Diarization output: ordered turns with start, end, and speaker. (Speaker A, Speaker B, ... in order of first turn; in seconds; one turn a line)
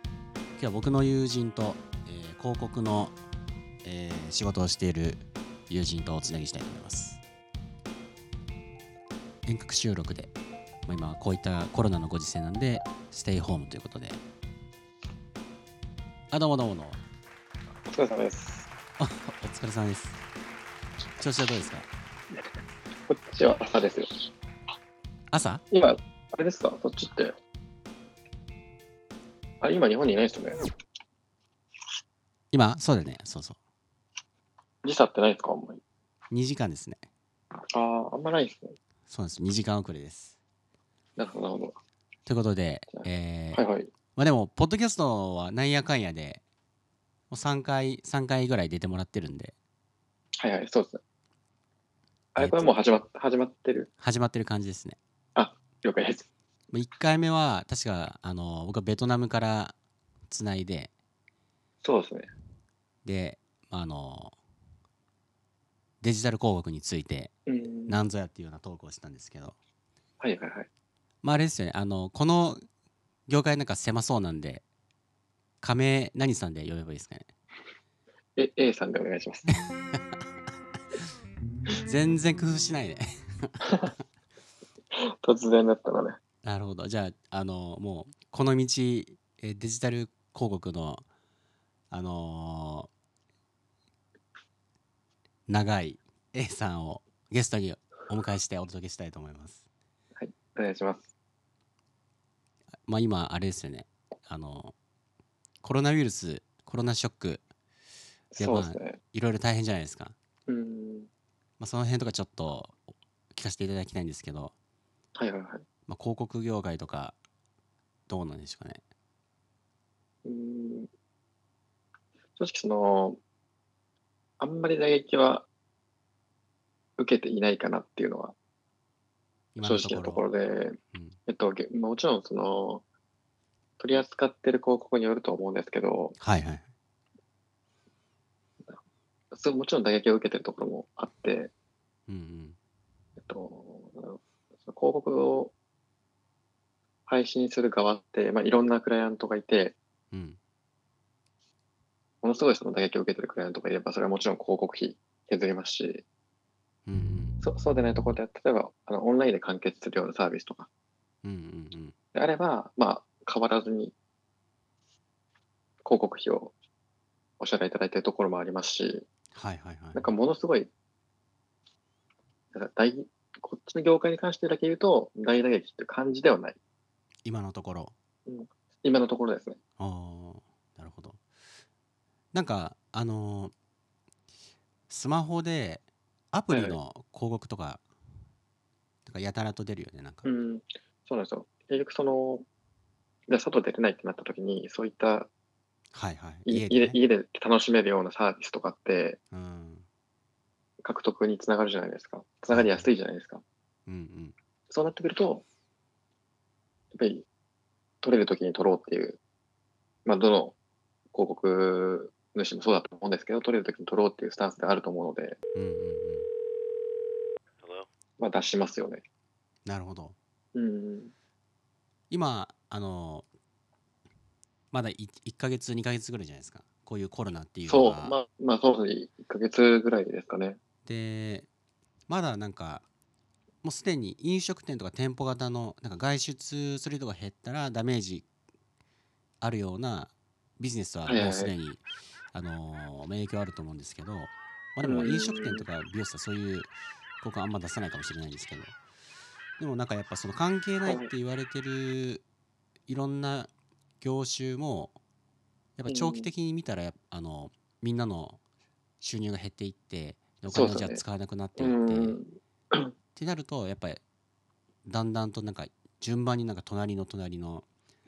Speaker A: 0.6-3.2
Speaker A: 3.8-7.2
Speaker A: 9.5-10.3
Speaker A: 10.9-14.2
Speaker A: 16.3-17.0
Speaker B: 17.9-18.7
Speaker A: 19.0-20.2
Speaker A: 21.2-21.9
Speaker B: 23.1-24.1
Speaker A: 25.3-25.6
Speaker B: 25.7-27.4
Speaker B: 29.6-30.7
Speaker A: 32.5-33.6
Speaker B: 34.8-35.8
Speaker A: 36.3-37.0
Speaker B: 37.7-38.8
Speaker A: 39.1-40.4
Speaker B: 41.2-41.8
Speaker A: 42.3-43.6
Speaker B: 42.9-43.9
Speaker A: 44.1-46.4
Speaker A: 47.3-49.5
Speaker B: 50.4-51.0
Speaker B: 52.4-53.9
Speaker A: 52.4-52.7
Speaker A: 54.0-55.0
Speaker B: 55.4-56.3
Speaker A: 56.7-59.8
Speaker A: 60.3-60.9
Speaker B: 61.8-62.3
Speaker A: 63.0-64.3
Speaker A: 66.0-67.3
Speaker B: 67.5-68.0
Speaker A: 67.9-69.6
Speaker B: 70.2-70.7
Speaker A: 71.2-72.6
Speaker A: 73.3-74.6
Speaker A: 75.6-77.3
Speaker B: 78.4-79.5
Speaker A: 79.7-80.0
Speaker A: 81.8-84.0
Speaker B: 85.0-86.2
Speaker A: 86.4-91.0
Speaker A: 91.9-92.9
Speaker A: 95.5-99.7
Speaker B: 100.2-101.1
Speaker A: 102.9-104.8
Speaker A: 105.6-107.4
Speaker B: 108.3-109.0
Speaker A: 108.4-110.2
Speaker B: 110.5-111.1
Speaker A: 111.6-112.8
Speaker A: 113.3-114.5
Speaker B: 115.2-115.7
Speaker A: 115.9-117.2
Speaker A: 118.1-118.8
Speaker B: 120.2-120.9
Speaker B: 122.4-123.2
Speaker B: 124.4-125.5
Speaker B: 127.0-128.3
Speaker A: 129.6-130.3
Speaker B: 129.6-132.8
Speaker A: 130.9-131.2
Speaker B: 133.8-136.2
Speaker A: 136.2-136.7
Speaker B: 139.3-141.5
Speaker A: 142.1-142.6
Speaker B: 143.2-145.5
Speaker B: 147.1-149.8
Speaker A: 150.1-150.4
Speaker B: 152.2-156.0
Speaker A: 156.9-157.4
Speaker B: 157.4-160.7
Speaker A: 161.2-161.9
Speaker B: 162.1-163.9
Speaker B: 165.8-166.5
Speaker B: 167.4-169.1
Speaker A: 169.3-170.1
Speaker B: 169.9-170.7
Speaker B: 172.5-176.6
Speaker A: 177.2-177.9
Speaker B: 178.3-179.6
Speaker A: 179.8-181.2
Speaker A: 182.3-183.5
Speaker A: 184.9-187.8
Speaker B: 186.5-186.8
Speaker A: 189.1-190.3
Speaker B: 190.2-192.4
Speaker B: 193.3-195.3
Speaker A: 195.9-197.0
Speaker B: 196.5-199.2
Speaker A: 199.3-199.9
Speaker B: 200.8-203.4
Speaker A: 202.5-202.9
Speaker A: 203.9-204.4
Speaker B: 204.7-205.4
Speaker B: 206.9-207.3
Speaker B: 208.0-209.2
Speaker B: 210.1-210.6
Speaker B: 211.1-215.4
Speaker A: 215.6-216.3
Speaker B: 218.2-219.0
Speaker A: 219.7-220.2
Speaker B: 220.5-221.1
Speaker A: 222.1-223.3
Speaker A: 224.7-228.2
Speaker B: 227.7-230.6
Speaker A: 230.9-231.5
Speaker A: 232.1-232.8
Speaker A: 233.6-238.3
Speaker A: 239.4-248.8
Speaker B: 241.1-241.5
Speaker B: 244.8-245.7
Speaker A: 249.6-252.2
Speaker B: 250.8-251.1
Speaker A: 252.9-255.0
Speaker A: 255.8-258.4
Speaker B: 255.9-256.3
Speaker A: 259.0-262.2
Speaker B: 260.5-261.0
Speaker B: 261.6-262.9
Speaker A: 263.1-264.0
Speaker A: 264.9-267.7